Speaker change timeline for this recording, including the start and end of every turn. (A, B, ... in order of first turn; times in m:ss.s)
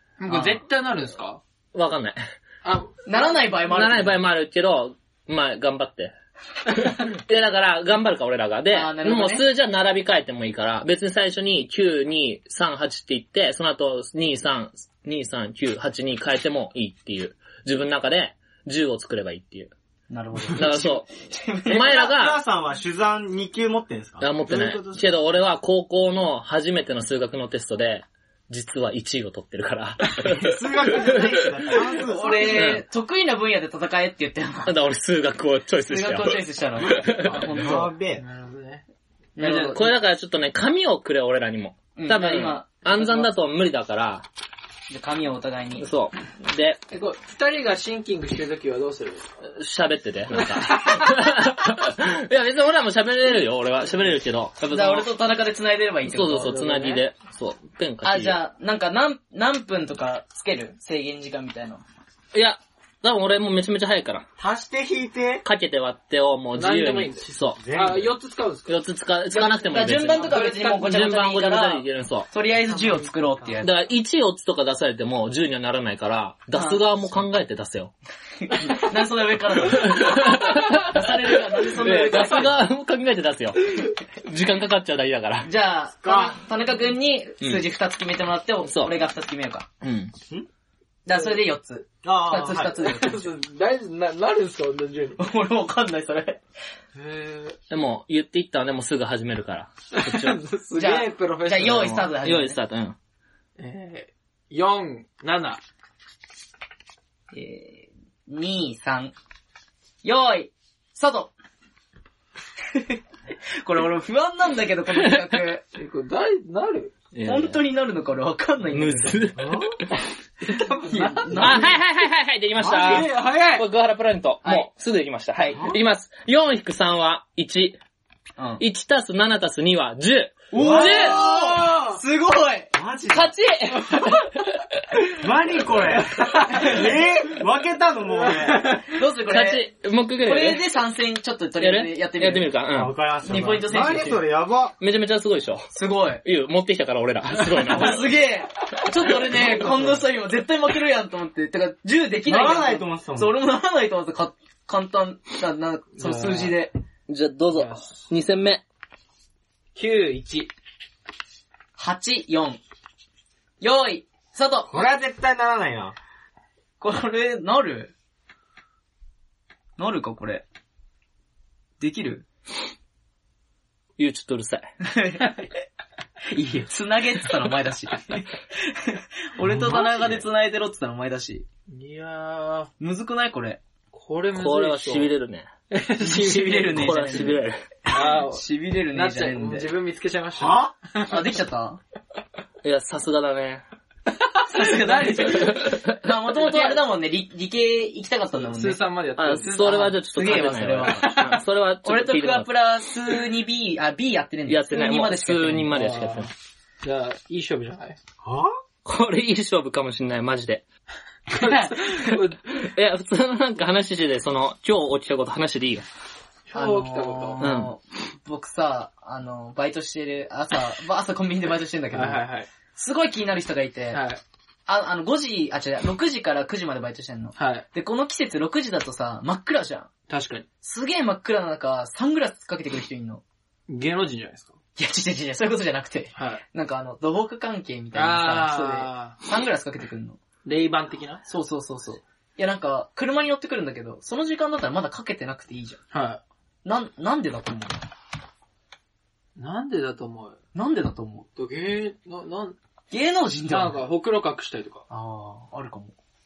0:00.2-0:01.4 A
0:00.3-0:00.6 B
0:01.7-0:02.2 C
0:02.6-0:03.0 A
0:03.1-0:04.2 B
0:03.6-0:06.1 C
0:06.7-0:19.7 C
0:08.7-0:09.5 B
0:20.1-0:22.0 B
0:20.5-0:21.1 C
0:21.7-0:22.4 C
0:21.7-0:25.2 D
0:24.2-0:31.4 C
0:30.3-0:32.8 D
0:32.0-0:34.8 B
0:32.5-0:32.8 C
0:34.7-0:37.4 C
0:35.9-0:37.9 B
0:37.3-0:37.6 A
0:37.4-0:38.2 D
0:38.2-0:38.8 A
0:39.4-0:39.9 B
0:39.4-0:44.3 C
0:39.4-0:39.8 A
0:42.0-0:43.3 B
0:44.9-0:45.9 B
0:45.8-0:46.8 C
0:46.9-0:49.3 A
0:49.4-0:55.1 C
0:50.3-0:51.1 A
0:54.7-0:57.0 B
0:56.1-0:58.4 C
0:58.0-1:01.8 B
1:02.3-1:04.3 C
1:04.4-1:05.4 D
1:05.4-1:07.6 C
1:06.6-1:08.8 A
1:07.6-1:08.1 D
1:08.7-1:12.3 C
1:09.3-1:13.7 B
1:10.1-1:10.9 A
1:13.6-1:17.9 C
1:16.5-1:16.8 B
1:18.4-1:22.6 B
1:19.6-1:25.5 C
1:25.4-1:29.7 B
1:26.0-1:26.4 D
1:28.6-1:28.9 C
1:29.8-1:30.1 C
1:31.1-1:33.3 B
1:32.0-1:32.8 D
1:32.8-1:35.2 A
1:35.2-1:36.4 B
1:37.0-1:37.6 A
1:37.7-1:40.4 C
1:39.9-1:42.0 A
1:40.8-1:42.6 B
1:41.6-1:43.0 C
1:43.6-1:45.6 A
1:47.3-1:49.1 B
1:50.0-1:51.3 B
1:52.7-1:53.0 B
1:53.6-1:55.6 B
1:55.8-1:57.0 A
1:57.1-1:57.6 C
1:57.2-1:59.2 B
1:58.7-1:59.8 C
1:59.4-1:59.8 D
2:00.5-2:01.6 A
2:00.9-2:01.8 B
2:01.4-2:07.8 C
2:02.6-2:03.6 A
2:02.8-2:03.0 D
2:04.4-2:04.7 B
2:05.4-2:05.6 B
2:05.6-2:05.8 D
2:08.4-2:08.6 B
2:08.6-2:11.2 C
2:10.5-2:12.7 B
2:10.5-2:12.0 D
2:12.8-2:13.4 D
2:13.1-2:14.8 C
2:15.1-2:18.7 D
2:16.5-2:16.8 B
2:18.5-2:18.8 A
2:18.8-2:19.6 B
2:19.3-2:20.6 C
2:20.2-2:22.5 B
2:21.6-2:23.0 C
2:22.7-2:24.8 D
2:23.2-2:24.2 B
2:24.8-2:25.7 C
2:25.7-2:26.2 B
2:26.2-2:28.1 C
2:27.7-2:36.7 B
2:32.3-2:33.4 D
2:36.0-2:36.5 A
2:37.1-2:38.6 C
2:37.5-2:38.0 A
2:39.8-2:40.5 A
2:41.8-2:42.6 B
2:43.6-2:44.7 B
2:44.7-2:46.0 D
2:46.8-2:47.9 B
2:49.8-2:50.4 B
2:51.8-2:52.2 B
2:54.0-2:54.7 C
2:54.8-2:55.5 B
2:56.3-3:01.5 B
2:59.5-3:00.2 D
3:01.7-3:02.7 A
3:02.8-3:03.6 B
3:03.9-3:05.1 A
3:04.3-3:05.5 C
3:05.7-3:07.3 A
3:06.0-3:09.7 B
3:06.7-3:07.6 C
3:07.9-3:11.2 A
3:10.4-3:10.7 D
3:11.1-3:11.8 B
3:12.6-3:13.6 C
3:14.4-3:15.6 A
3:14.5-3:18.8 B
3:15.2-3:16.0 C
3:16.4-3:16.8 A
3:18.4-3:19.7 A
3:19.2-3:22.5 C
3:19.4-3:25.7 B
3:24.5-3:26.3 C
3:25.7-3:26.3 A
3:26.8-3:28.0 A
3:28.2-3:28.5 D
3:28.8-3:30.6 C
3:31.3-3:32.4 A
3:31.4-3:32.0 B
3:32.5-3:35.8 C
3:36.5-3:37.5 A
3:36.5-3:42.2 B
3:37.4-3:37.7 C
3:41.9-3:42.5 A
3:42.8-3:44.0 B
3:43.9-3:44.2 A
3:44.7-3:49.9 B
3:47.4-3:47.6 A
3:50.1-3:50.5 A
3:50.6-3:53.2 B
3:53.7-3:54.6 A
3:54.8-4:00.2 B
3:56.2-3:56.4 A
3:57.9-3:59.2 A
4:00.4-4:01.2 A
4:01.3-4:05.8 B
4:05.9-4:06.2 A
4:06.6-4:07.8 B
4:09.4-4:10.4 A
4:10.5-4:11.3 B
4:11.4-4:12.6 A
4:12.9-4:13.8 B
4:13.5-4:14.8 A
4:14.9-4:16.0 B